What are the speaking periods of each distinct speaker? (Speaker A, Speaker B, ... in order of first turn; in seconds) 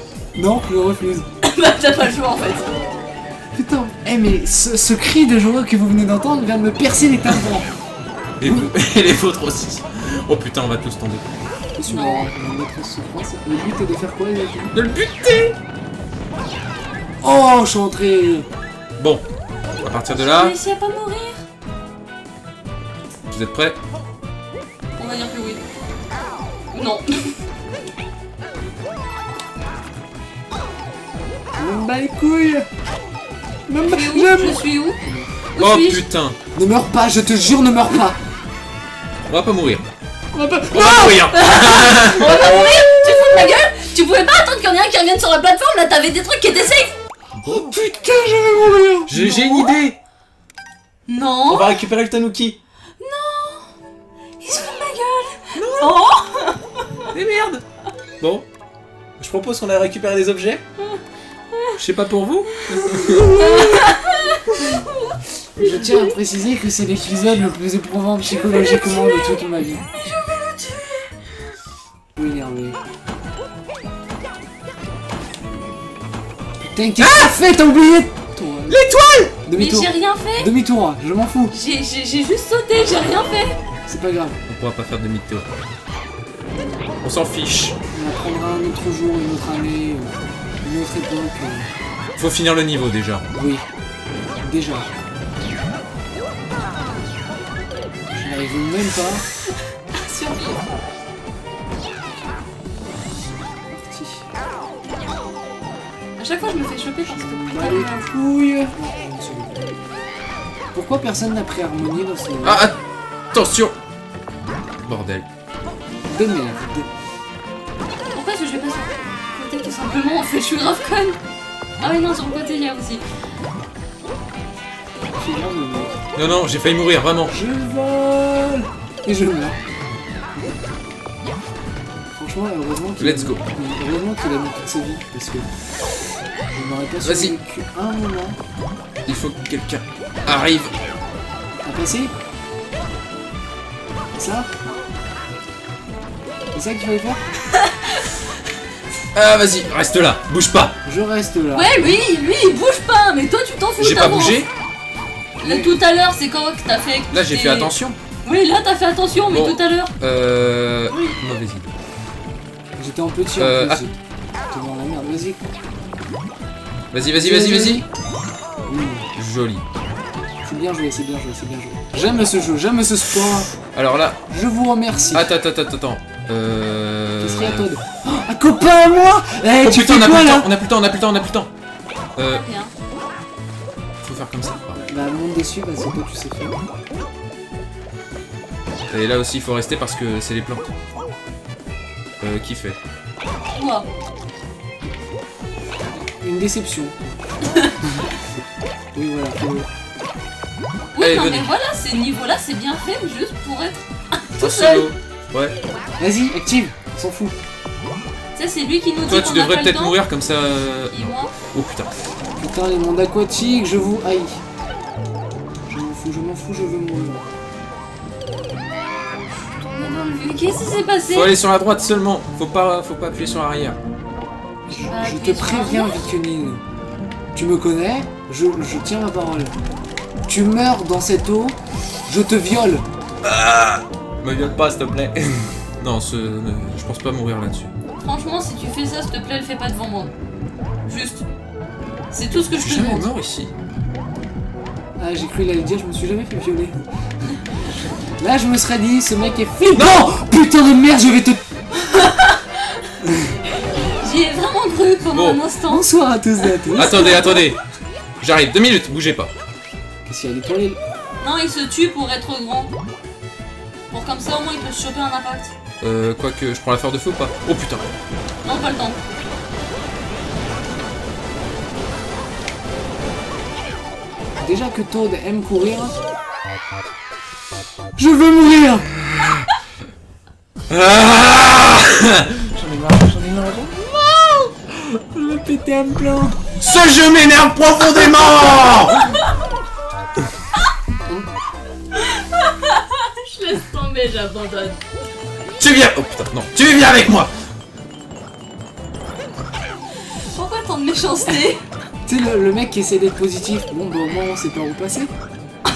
Speaker A: 0.3-1.3, 3.5-7.7, 8.4-8.7, 11.7-14.7, 17.2-18.5, 31.5-32.7, 33.7-35.3, 36.5-38.2, 40.3-41.3, 42.2-43.4, 47.4-49.2, 63.0-63.9, 65.6-69.8, 72.2-72.8, 76.6-78.8, 79.4-81.5, 83.9-84.4, 87.9-91.7, 93.3-93.6, 94.4-94.9, 98.1-99.2, 103.6-104.2, 107.0-109.8, 110.7-112.7, 116.0-116.9, 125.2-126.0, 127.3-129.6, 132.1-135.5, 136.5-138.4, 141.6-142.1, 144.1-144.5, 146.5-147.2, 150.8-152.0, 155.4-155.7, 162.8-165.4, 167.2-167.8, 168.7-169.1, 170.4-173.5, 174.3-175.3, 177.2-180.5, 184.8-186.6, 196.2-198.1, 198.9-199.7, 206.0-207.4, 212.4-214.4, 215.7-217.3, 224.7-226.6, 227.3-229.5, 230.2-232.8, 245.0-246.8, 248.2-251.4, 253.0-253.4, 255.7-257.3, 260.1-260.8, 274.4-276.0, 278.0-278.9, 282.5-286.5, 302.1-305.1
Speaker B: 1.4-2.7, 11.9-12.3, 20.1-21.4, 25.0-25.6, 26.7-27.3, 33.8-35.0, 35.5-36.0, 41.3-46.9, 49.1-49.7, 51.1-51.8, 53.0-53.7, 54.4-56.9, 60.8-61.8, 62.6-66.1, 68.3-71.0, 79.5-80.5, 81.5-83.5, 99.9-100.7, 106.2-108.1, 118.1-121.2, 121.8-123.0, 147.6-148.0, 151.5-154.4, 155.4-157.7, 158.2-159.9, 160.9-161.2, 182.3-182.7, 193.6-193.9, 200.9-204.9, 208.3-210.0, 210.9-211.3, 219.7-221.3, 224.9-226.0, 238.0-240.1, 240.9-241.2, 242.1-243.1, 251.8-252.4, 253.7-255.9, 261.2-262.7, 263.9-265.5, 268.4-269.0, 292.0-294.8, 300.3-301.6
Speaker C: 8.4-11.2, 14.7-15.5, 19.0-19.2, 19.8-20.5, 23.3-23.8, 35.6-36.4, 39.3-39.8, 40.7-42.4, 47.4-47.8, 49.1-50.0, 51.5-52.6, 55.5-56.0, 57.1-57.6, 58.2-58.5, 59.2-60.6, 61.8-63.4, 77.0-77.4, 78.7-79.3, 84.5-85.5, 87.0-87.8, 92.2-93.2, 112.4-112.8, 113.3-113.7, 114.8-115.2, 126.2-127.3, 133.0-133.4, 137.0-137.3, 139.1-140.7, 149.1-150.7, 153.8-154.5, 157.1-158.0, 159.3-161.7, 163.4-163.8, 166.9-167.8, 169.2-169.6, 173.7-174.2, 175.1-177.7, 179.6-181.5, 182.2-182.4, 184.0-184.8, 188.9-190.7, 192.2-192.8, 201.0-201.5, 204.4-205.6, 209.1-211.9, 221.1-223.8, 233.2-237.7, 242.5-243.5, 249.7-250.1, 255.1-255.4, 256.7-257.6, 258.2-259.3, 265.8-267.9, 280.7-282.3, 286.6-289.1, 295.6-297.3